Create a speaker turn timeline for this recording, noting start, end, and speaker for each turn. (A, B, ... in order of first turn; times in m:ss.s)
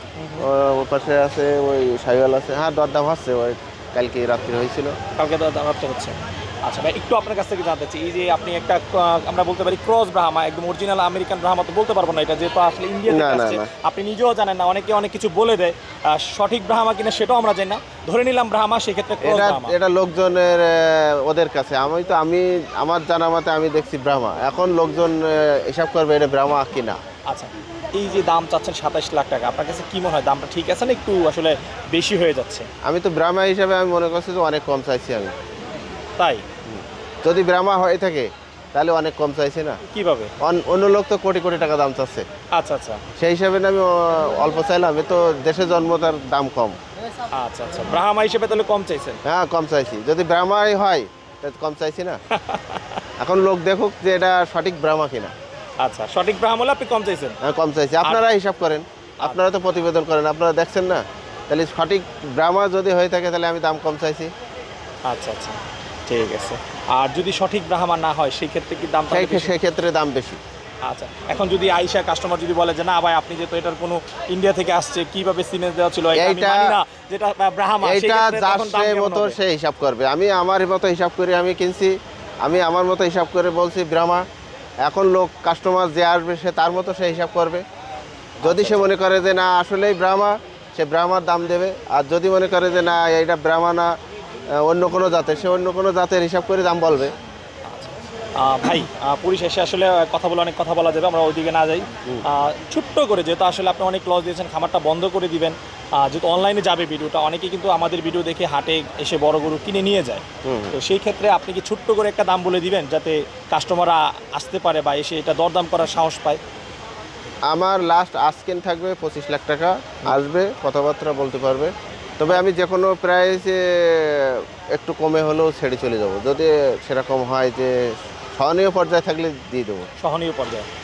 0:00.2-0:00.5 A
0:00.4-0:04.9 B
0:05.2-0:19.8 A
0:13.1-0:13.7 B
0:19.2-0:27.0 B
0:27.3-0:32.7 A
0:32.8-0:35.3 B
0:36.2-0:36.4 A
0:36.7-0:39.8 B
0:39.9-0:40.3 A
0:40.4-0:42.2 B
0:42.5-0:43.0 A
0:43.2-0:46.8 B
0:47.3-0:49.2 A
0:49.3-0:52.2 B
0:52.3-0:53.0 A
0:53.2-0:55.3 B
0:55.8-0:57.4 A
0:57.4-1:04.3 B
1:05.1-1:09.5 A
1:09.1-1:10.4 B
1:10.8-1:19.4 A
1:16.1-1:16.7 B
1:17.8-1:24.2 B
1:24.8-1:27.6 B
1:28.4-1:28.9 A
1:28.4-1:33.9 B
1:34.6-1:37.1 B
1:37.6-1:56.4 A
1:50.4-1:50.8 B
1:57.5-2:07.7 B
2:08.4-2:09.8 B
2:10.0-2:10.7 A